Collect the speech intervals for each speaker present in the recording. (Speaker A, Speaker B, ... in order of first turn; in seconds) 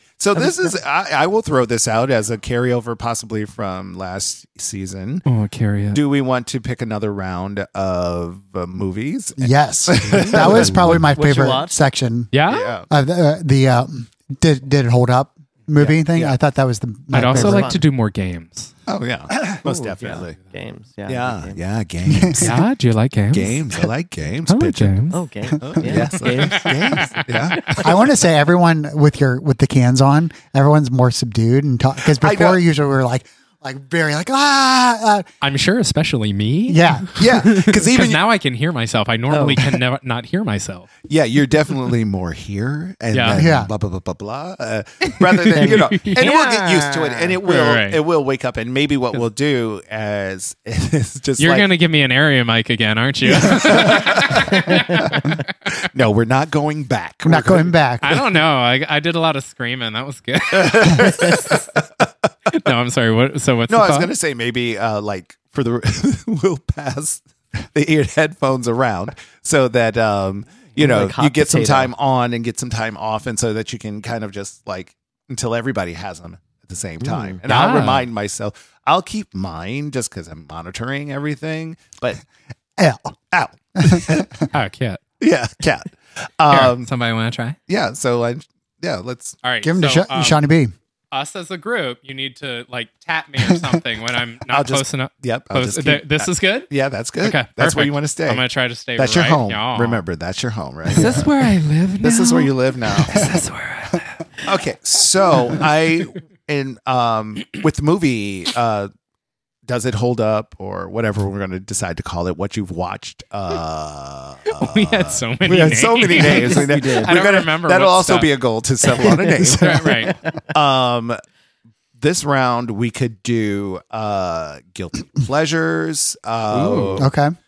Speaker A: 0.2-5.2, 5.9-11.0, 12.5-12.9, 16.1-16.4, 18.9-20.4, 21.1-22.6, 23.3-25.0, 25.6-27.8, 32.1-32.6, 37.1-38.2, 41.1-51.7, 53.3-57.7, 60.5-62.1, 63.7-82.2, 83.3-84.3, 85.2-86.9, 87.7-89.4, 94.5-98.4, 99.0-101.3, 102.0-103.2, 104.4-108.9, 109.7-121.2, 122.0-127.1
Speaker B: 0.3-0.7, 11.1-11.8, 17.3-17.8, 19.6-21.6, 25.1-27.0, 27.5-27.9, 39.3-39.7, 45.5-47.4, 54.5-55.1, 70.8-71.9, 77.0-77.4, 116.1-117.2
Speaker C: 5.2-6.0, 10.1-10.7, 12.3-12.7, 17.1-18.7, 22.4-23.9, 24.5-25.2, 26.4-27.8, 35.4-40.9, 43.1-43.5, 45.2-46.2, 47.4-48.0, 51.4-55.4, 58.0-61.7, 62.5-64.1, 77.5-78.1, 84.5-85.0, 86.5-87.6, 89.4-90.4, 91.1-100.0, 100.8-104.2, 114.5-118.3, 119.0-120.2, 126.5-127.0
Speaker D: 9.4-12.3, 12.9-17.8, 22.0-22.6, 27.7-35.2, 36.7-37.3, 43.3-43.7, 57.2-58.2, 82.8-83.1, 83.8-84.5, 89.6-90.7, 101.0-101.2, 127.0-127.3